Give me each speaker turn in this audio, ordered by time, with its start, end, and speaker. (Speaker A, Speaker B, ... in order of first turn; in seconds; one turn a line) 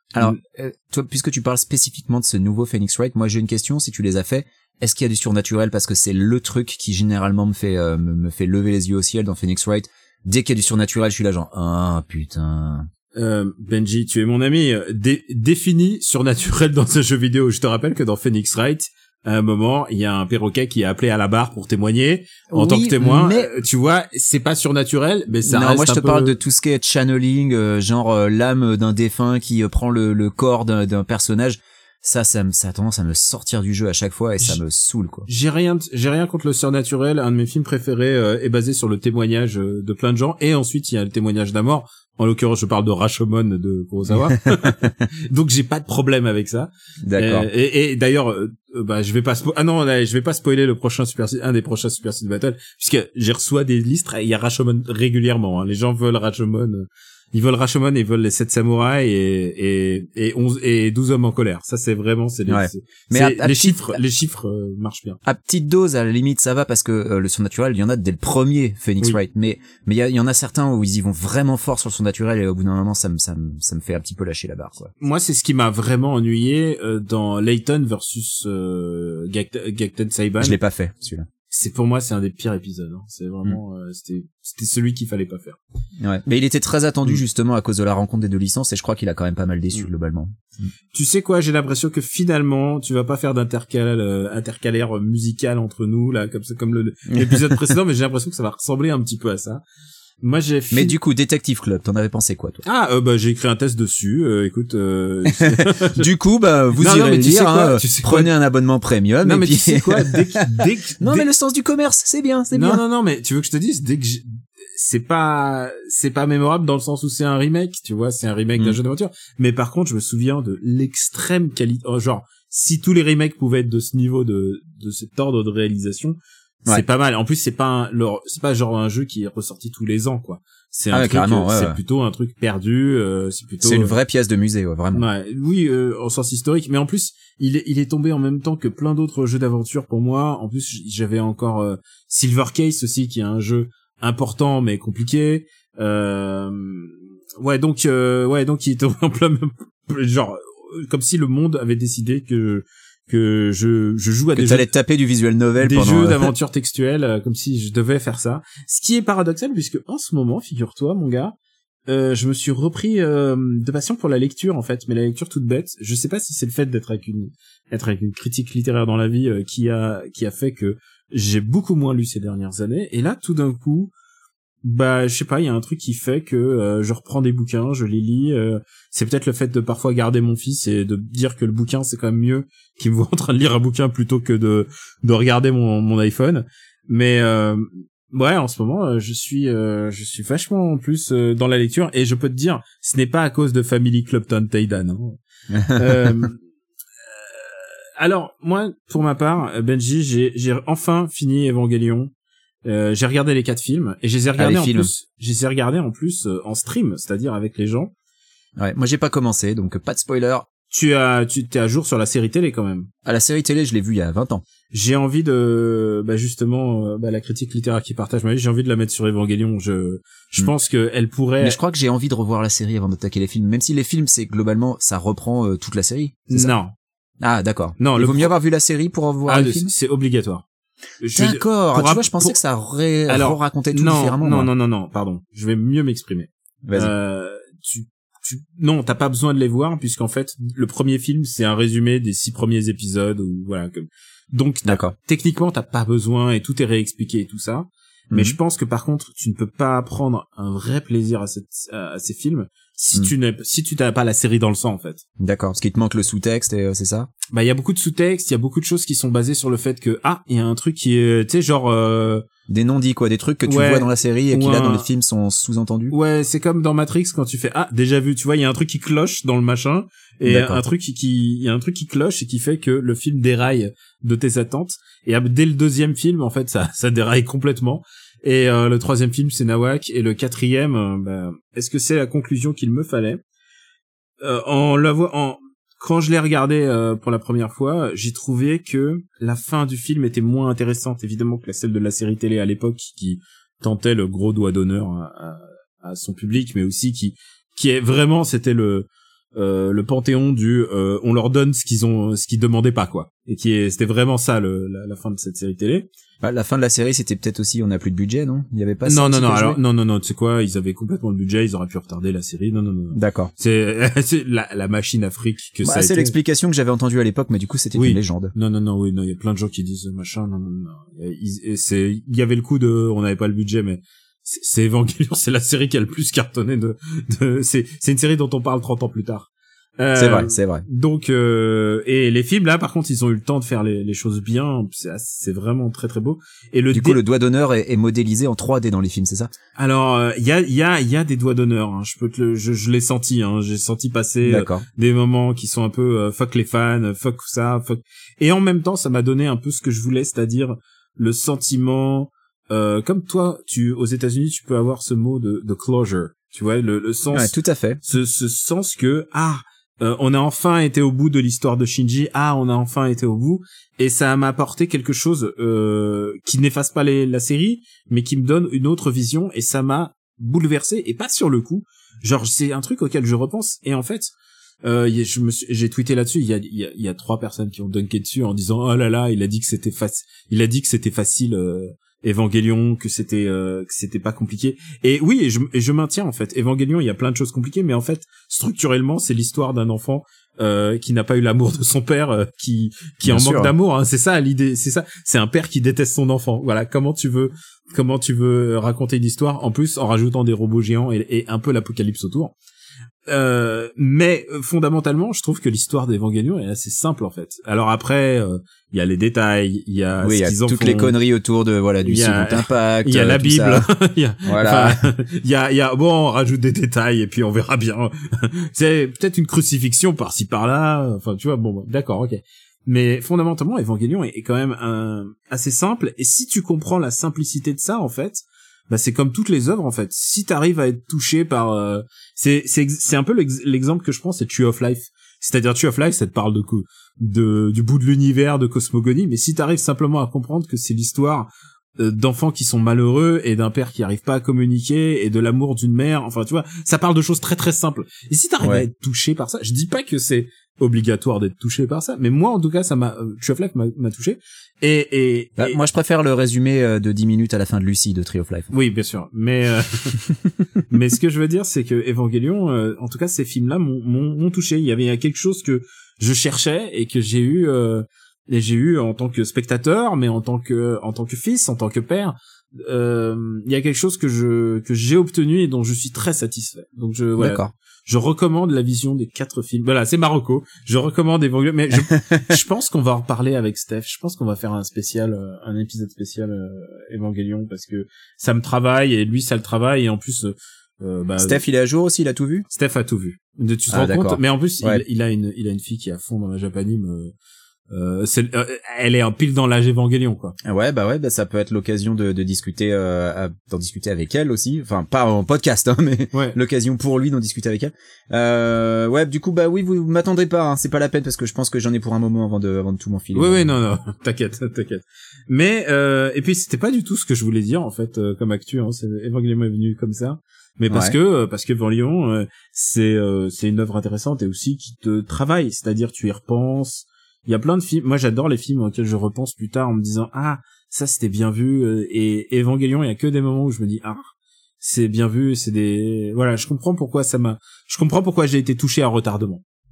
Speaker A: 0.1-12.9
Speaker B: 13.2-26.4
Speaker A: 22.5-23.5
Speaker A: 25.4-35.3
Speaker B: 35.3-65.2
Speaker A: 47.0-47.5
Speaker A: 62.5-64.0
Speaker A: 65.2-74.9
Speaker B: 75.0-80.6
Speaker A: 80.4-81.3
Speaker B: 81.5-85.6
Speaker A: 86.0-90.3
Speaker B: 90.9-99.6
Speaker A: 97.1-97.8
Speaker B: 100.2-101.0
Speaker A: 100.7-102.6
Speaker B: 102.7-106.1
Speaker A: 105.3-112.8
Speaker B: 106.8-108.3
Speaker B: 109.2-111.3
Speaker B: 112.5-134.0
Speaker A: 130.9-131.8
Speaker A: 133.6-135.1
Speaker B: 134.9-154.7
Speaker A: 154.3-156.3
Speaker B: 155.6-161.4
Speaker B: 161.9-173.9
Speaker B: 174.6-195.2
Speaker A: 195.5-196.2
Speaker B: 195.8-196.4
Speaker B: 197.2-202.1
Speaker B: 202.7-207.9
Speaker A: 204.4-204.9
Speaker A: 208.6-210.5
Speaker B: 210.7-212.9
Speaker A: 213.1-214.4
Speaker B: 214.7-221.6
Speaker A: 221.4-226.5
Speaker B: 226.3-226.7
Speaker A: 227.2-229.7
Speaker B: 227.8-228.3
Speaker B: 229.3-230.4
Speaker B: 231.0-232.4
Speaker A: 231.2-234.5
Speaker B: 233.1-255.0
Speaker A: 236.7-236.9
Speaker A: 244.7-244.9
Speaker A: 248.1-248.4
Speaker A: 255.2-257.1
Speaker B: 257.3-262.3
Speaker A: 262.5-265.9
Speaker B: 263.5-264.9
Speaker B: 265.9-283.2
Speaker A: 270.2-270.6
Speaker B: 284.2-305.9
Speaker A: 306.2-309.6
Speaker B: 308.9-316.2
Speaker A: 312.9-313.3
Speaker A: 315.6-318.3
Speaker B: 317.7-337.0
Speaker A: 329.9-330.6
Speaker A: 336.7-339.3
Speaker B: 339.6-357.3
Speaker A: 344.2-344.7
Speaker A: 357.1-357.8
Speaker B: 357.8-374.1
Speaker B: 374.6-402.3
Speaker A: 393.1-393.5
Speaker B: 403.1-410.9
Speaker A: 410.0-413.7
Speaker B: 411.8-455.6
Speaker A: 414.2-414.8
Speaker A: 455.4-458.5
Speaker B: 458.5-460.0
Speaker B: 460.7-491.4
Speaker A: 477.2-477.5
Speaker A: 481.9-482.3
Speaker A: 491.2-492.5
Speaker B: 492.5-497.1
Speaker A: 493.7-494.8
Speaker B: 497.7-500.4
Speaker A: 500.4-513.5
Speaker B: 513.1-539.4
Speaker A: 520.7-521.0